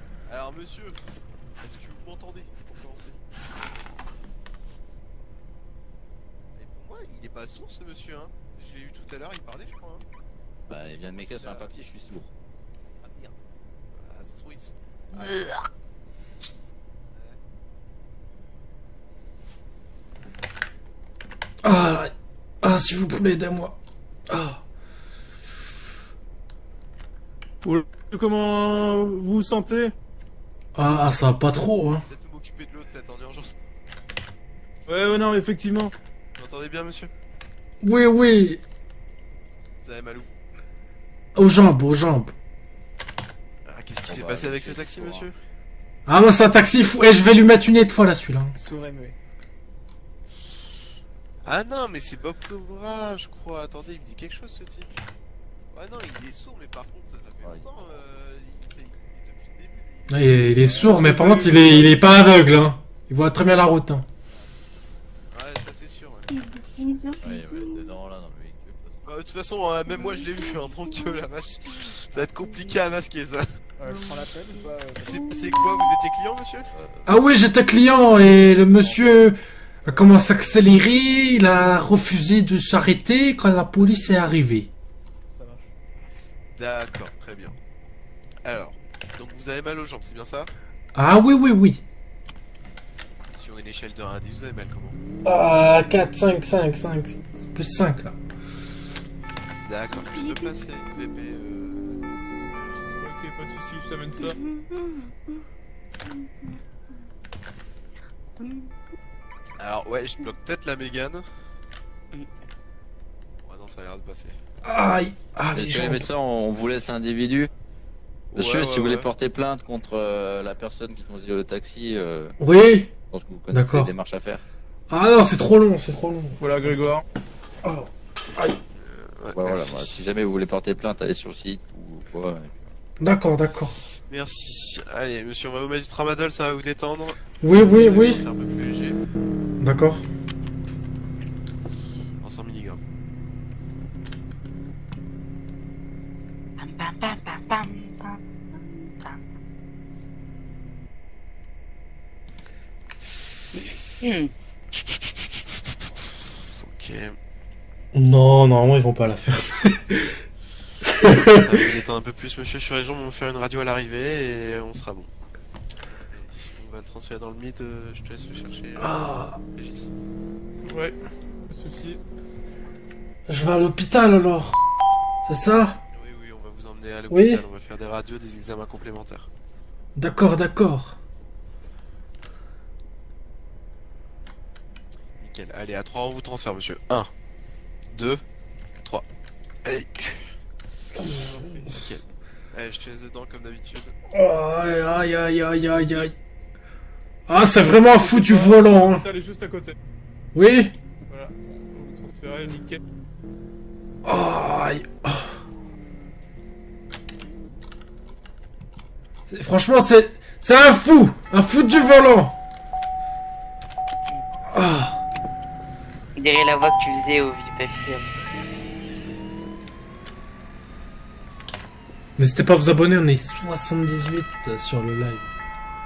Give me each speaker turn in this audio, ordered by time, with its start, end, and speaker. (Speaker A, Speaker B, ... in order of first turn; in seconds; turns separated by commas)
Speaker A: 0.2-1.0, Speaker A: 1.6-3.2, Speaker A: 6.5-10.0, Speaker B: 10.7-12.3, Speaker A: 11.4-11.7, Speaker A: 13.0-13.3, Speaker A: 13.9-15.5, Speaker A: 17.1-17.4, Speaker C: 21.6-23.8, Speaker C: 24.3-24.6, Speaker D: 27.6-29.9, Speaker C: 30.7-32.0, Speaker A: 32.0-33.5, Speaker D: 34.9-35.9, Speaker A: 36.4-37.1, Speaker C: 37.8-38.6, Speaker A: 39.8-40.3, Speaker C: 41.3-42.3, Speaker A: 43.6-45.3, Speaker B: 44.1-45.3, Speaker C: 46.0-48.5, Speaker E: 48.5-49.1, Speaker A: 51.4-55.0, Speaker A: 55.7-60.8, Speaker B: 57.4-57.7, Speaker C: 60.1-64.0, Speaker D: 60.8-62.1, Speaker A: 65.3-66.3, Speaker F: 66.5-67.6, Speaker B: 67.2-69.0, Speaker A: 69.0-73.5, Speaker E: 73.8-75.3, Speaker A: 75.0-76.7, Speaker B: 76.7-77.2, Speaker C: 77.0-84.7, Speaker B: 78.2-79.3, Speaker E: 79.8-80.8, Speaker E: 85.3-85.7, Speaker A: 86.5-87.6, Speaker A: 88.4-90.5, Speaker C: 90.9-91.8, Speaker A: 93.3-95.0, Speaker C: 95.2-98.2, Speaker A: 99.6-103.0, Speaker F: 99.8-100.5, Speaker D: 103.0-104.3, Speaker F: 104.2-105.1, Speaker F: 108.4-108.8, Speaker A: 109.6-111.2, Speaker F: 112.1-112.5, Speaker A: 113.4-114.4, Speaker C: 114.6-116.1, Speaker B: 115.5-117.5, Speaker B: 118.3-122.3, Speaker A: 118.3-119.1, Speaker C: 122.4-122.9, Speaker B: 123.1-124.4, Speaker C: 123.5-123.9, Speaker C: 124.9-126.4, Speaker D: 126.4-127.0, Speaker C: 127.6-128.6, Speaker A: 128.8-129.9, Speaker B: 129.3-132.7, Speaker C: 133.0-133.7, Speaker A: 134.1-139.0, Speaker C: 137.4-138.2, Speaker C: 139.6-140.0, Speaker A: 142.2-142.8, Speaker F: 146.6-148.2, Speaker F: 153.5-154.3, Speaker A: 156.6-157.2, Speaker C: 157.9-160.2, Speaker C: 160.8-161.4, Speaker A: 161.3-165.1, Speaker A: 166.1-169.0, Speaker C: 168.8-169.4, Speaker A: 169.5-169.9, Speaker D: 170.6-170.9, Speaker D: 171.5-172.0, Speaker C: 173.3-174.6, Speaker C: 175.2-175.8, Speaker A: 175.9-179.3, Speaker C: 177.1-177.4, Speaker C: 179.9-180.9, Speaker A: 185.2-187.1, Speaker A: 187.9-188.2, Speaker A: 189.6-190.2, Speaker D: 191.1-191.8, Speaker A: 191.7-193.9, Speaker C: 194.1-196.1, Speaker C: 197.3-199.0, Speaker D: 197.7-199.8, Speaker C: 200.3-200.7, Speaker D: 201.1-202.8, Speaker C: 204.0-205.2, Speaker C: 209.3-212.3, Speaker C: 214.5-214.9, Speaker F: 216.2-218.1, Speaker C: 222.2-225.2